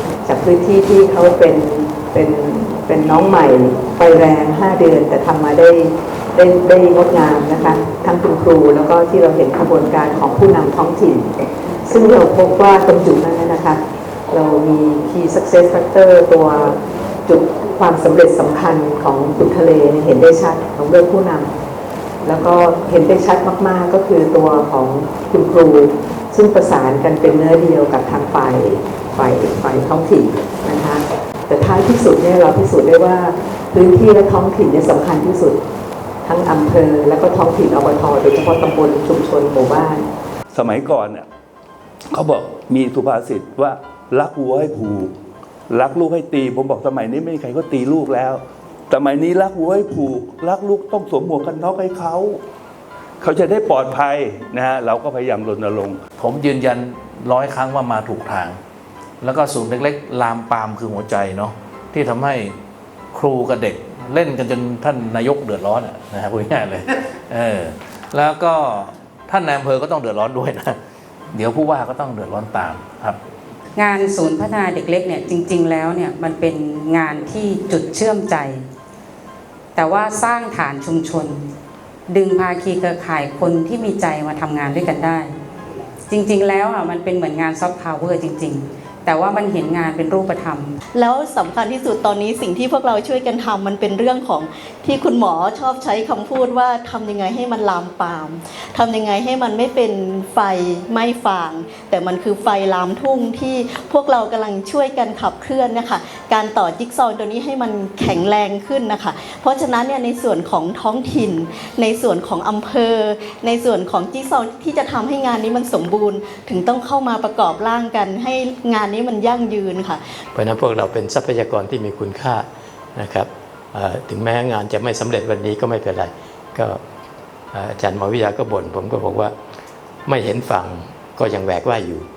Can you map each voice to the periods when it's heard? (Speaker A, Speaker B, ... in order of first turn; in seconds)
Speaker A: 0.2-21.6, 22.2-35.6, 36.2-40.1
Speaker B: 40.5-41.3, 42.1-45.1, 45.7-52.4, 53.2-56.0
Speaker C: 56.2-58.6, 59.2-62.6, 63.1-70.8, 71.3-73.2
Speaker D: 73.8-78.7, 79.8-81.5, 82.1-85.3, 86.1-90.8
Speaker E: 91.0-120.2
Speaker F: 120.3-126.8, 127.5-129.3, 130.1-132.1